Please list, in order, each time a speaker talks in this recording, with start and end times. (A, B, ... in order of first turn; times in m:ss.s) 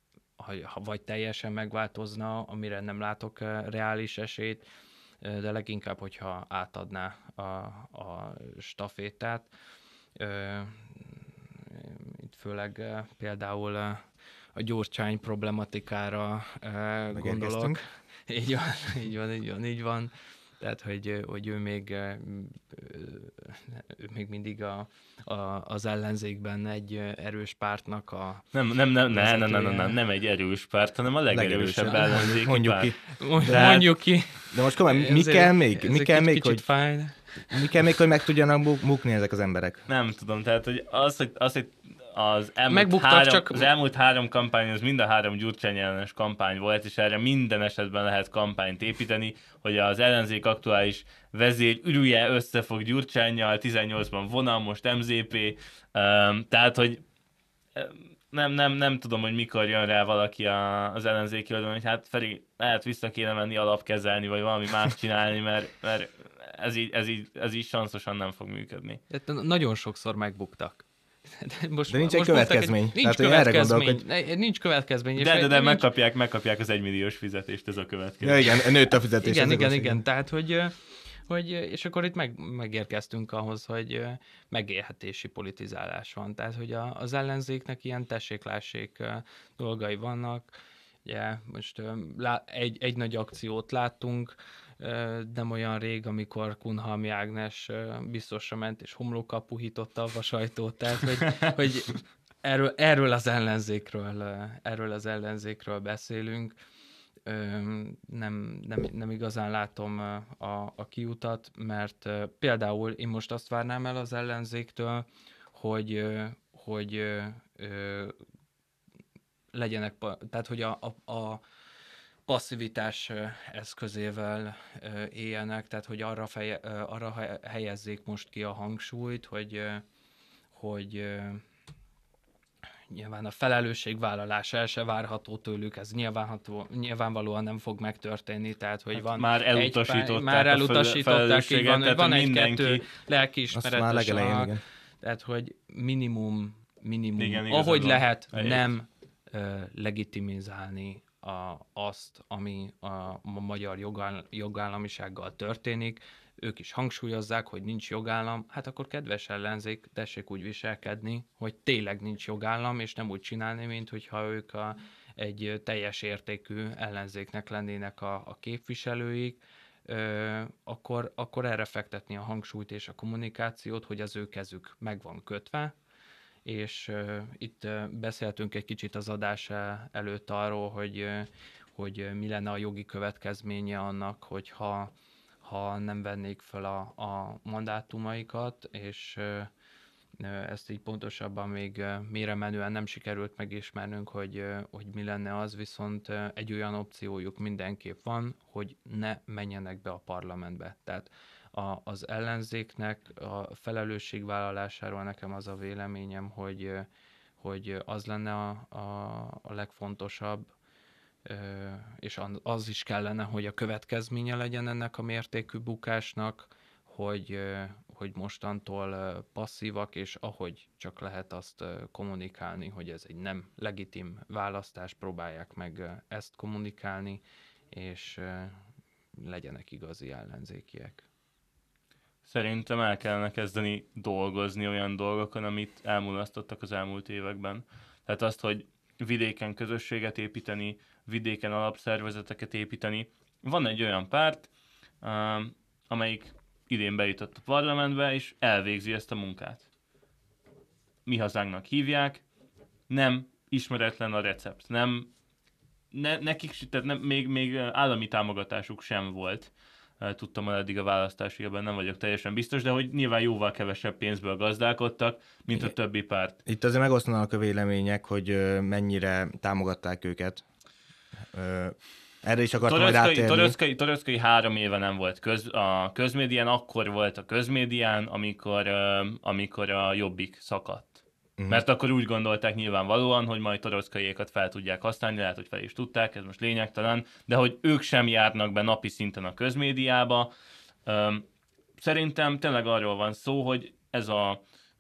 0:00.4-0:04.7 A
0:05.2-0:09.5 A
0:10.2-0:14.0 A
0:14.6-0:28.5 A
0:17.2-0:17.8 B
0:28.5-0:33.8 C
0:29.1-0:30.0 A
0:31.3-0:33.8 B
0:33.1-0:37.6 A
0:34.5-0:36.7 B
0:37.5-0:39.9 B
0:39.9-0:57.0 C
0:42.7-0:43.7 A
0:57.8-1:09.0 C
1:09.1-1:15.8 A
1:11.9-1:14.0 B
1:15.2-1:18.7 C
1:18.2-1:20.0 B
1:19.2-1:46.6 A
1:47.3-1:58.2 A
1:59.5-2:01.4 A
2:02.3-2:09.8 A
2:10.5-2:11.4 A
2:12.9-2:55.8 A
2:19.0-2:22.8 C
2:23.5-2:24.6 B
2:27.2-2:28.6 C
2:56.4-3:09.5 A
3:10.2-3:26.9 A
3:27.4-3:30.5 A
3:31.2-3:48.6 A
3:49.2-3:51.0 A
3:52.3-4:04.5 C
4:05.0-4:09.7 C
4:11.1-4:12.2 C
4:12.9-4:15.1 C
4:15.9-4:26.4 C
4:26.5-4:30.4 B
4:31.3-4:33.6 B
4:32.7-4:50.3 C
4:50.9-4:51.2 C
4:51.8-4:54.4 C